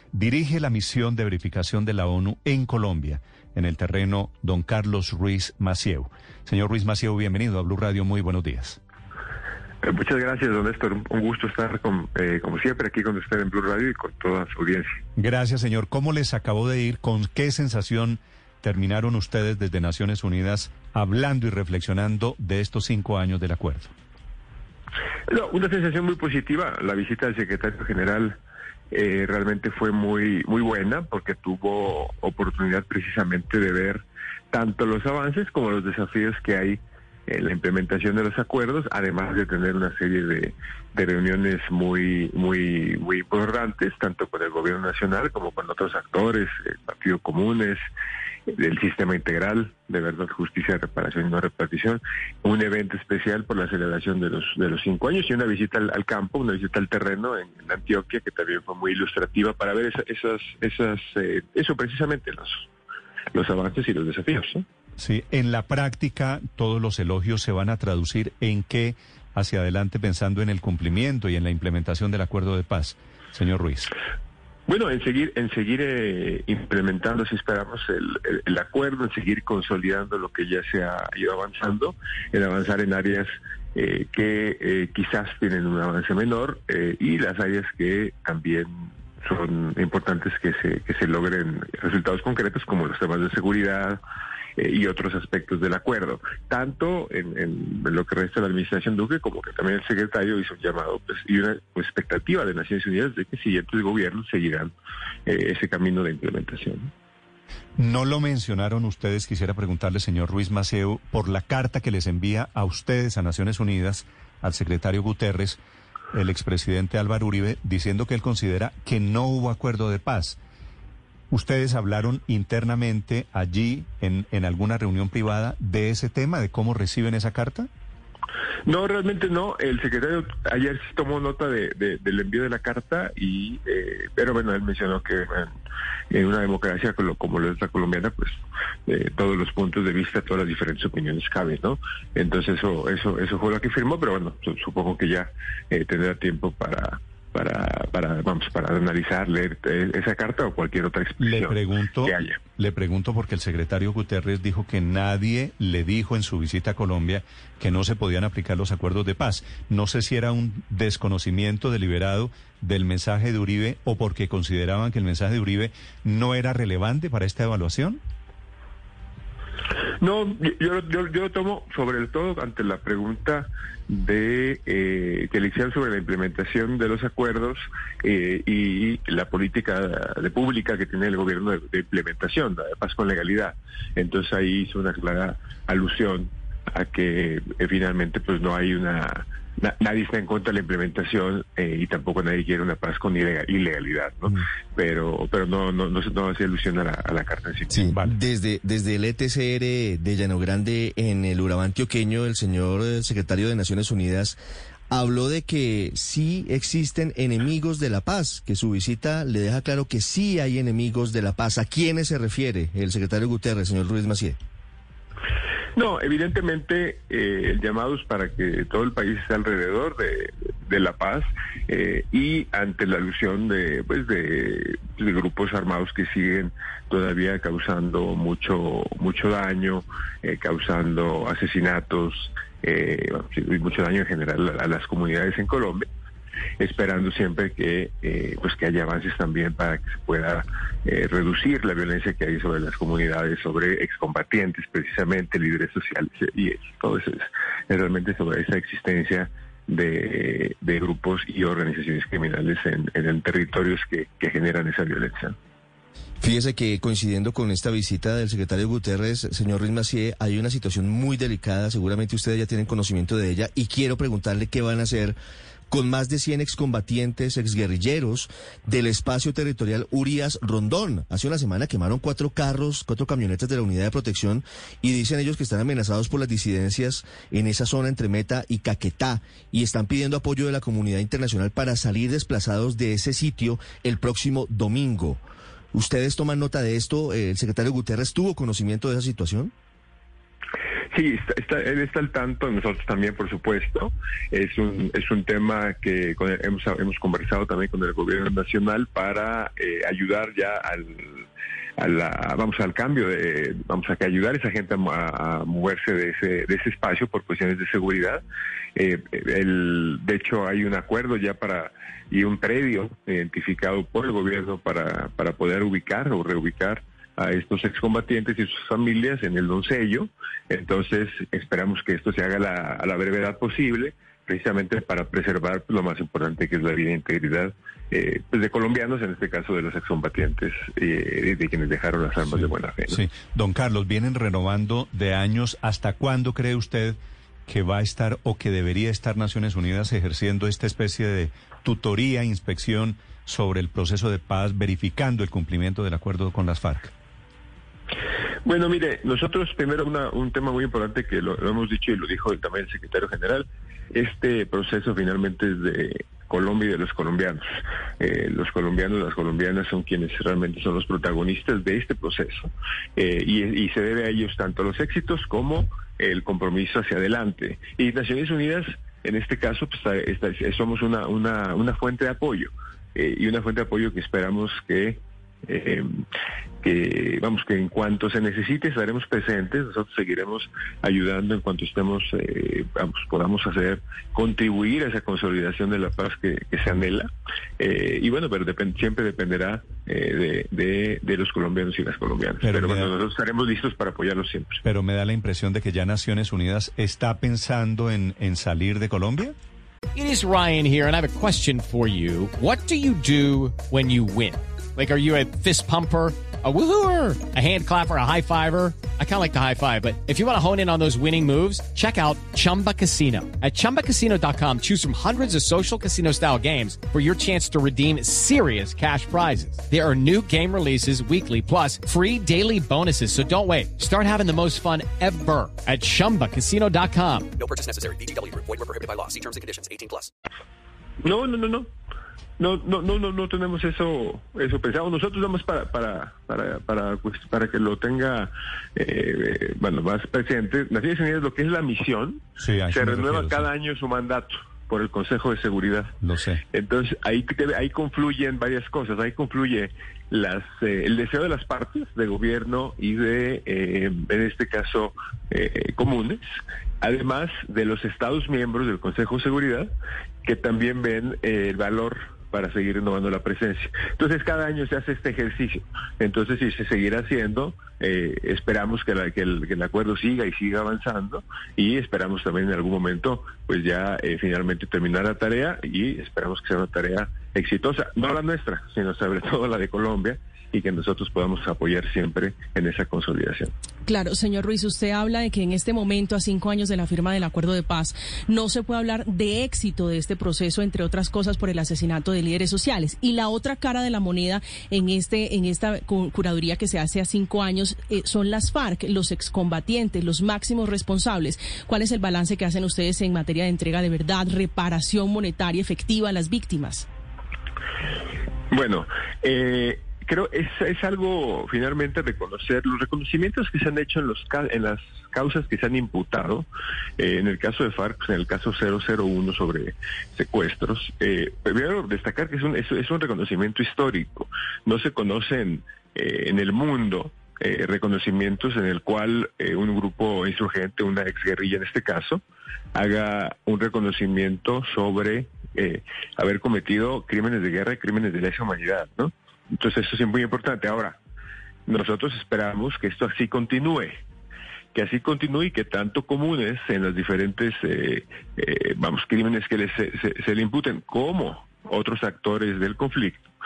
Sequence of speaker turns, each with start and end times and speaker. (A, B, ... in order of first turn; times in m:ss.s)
0:00.1-0:08.8 A
0:09.8-0:15.0 B
0:15.2-0:23.9 A
0:25.3-0:28.4 B
0:28.9-0:47.8 B
0:48.5-1:02.7 B
1:03.3-1:04.6 B
1:05.0-1:13.9 A
1:14.7-1:28.7 B
1:29.2-1:34.0 B
1:34.6-1:44.7 B
1:45.2-1:46.9 B
1:47.8-1:55.6 A
1:56.1-2:00.4 A
2:01.3-2:07.7 A
2:08.6-2:15.5 B
2:16.1-2:18.4 B
2:18.9-2:32.4 B
2:31.2-2:48.0 A
2:50.0-3:17.9 B
3:17.7-3:24.4 C
3:24.9-3:34.4 C
3:35.7-3:55.8 B
3:56.6-4:15.3 B
4:16.2-4:25.2 C
4:25.7-4:45.2 C
4:45.7-4:49.5 C
4:50.9-5:01.2 B
5:01.8-5:08.2 B
5:08.7-5:33.0 B
5:32.2-5:46.9 A
5:48.4-5:57.4 B
5:58.0-6:15.9 B
6:16.6-6:34.6 B
6:32.4-6:32.9 A
6:34.6-6:39.3 A
6:39.9-7:07.3 D
7:07.3-7:10.1 E
7:11.0-7:11.7 B
7:12.4-7:25.9 B
7:22.4-7:23.5 A
7:26.0-7:26.4 A
7:26.5-7:36.2 B
7:36.8-7:39.7 B
7:40.2-8:03.5 B
8:03.8-8:26.8 F
8:28.5-8:36.4 B
8:37.0-8:52.2 B
8:52.7-9:01.0 B
9:01.7-9:03.9 B
9:04.7-9:13.2 B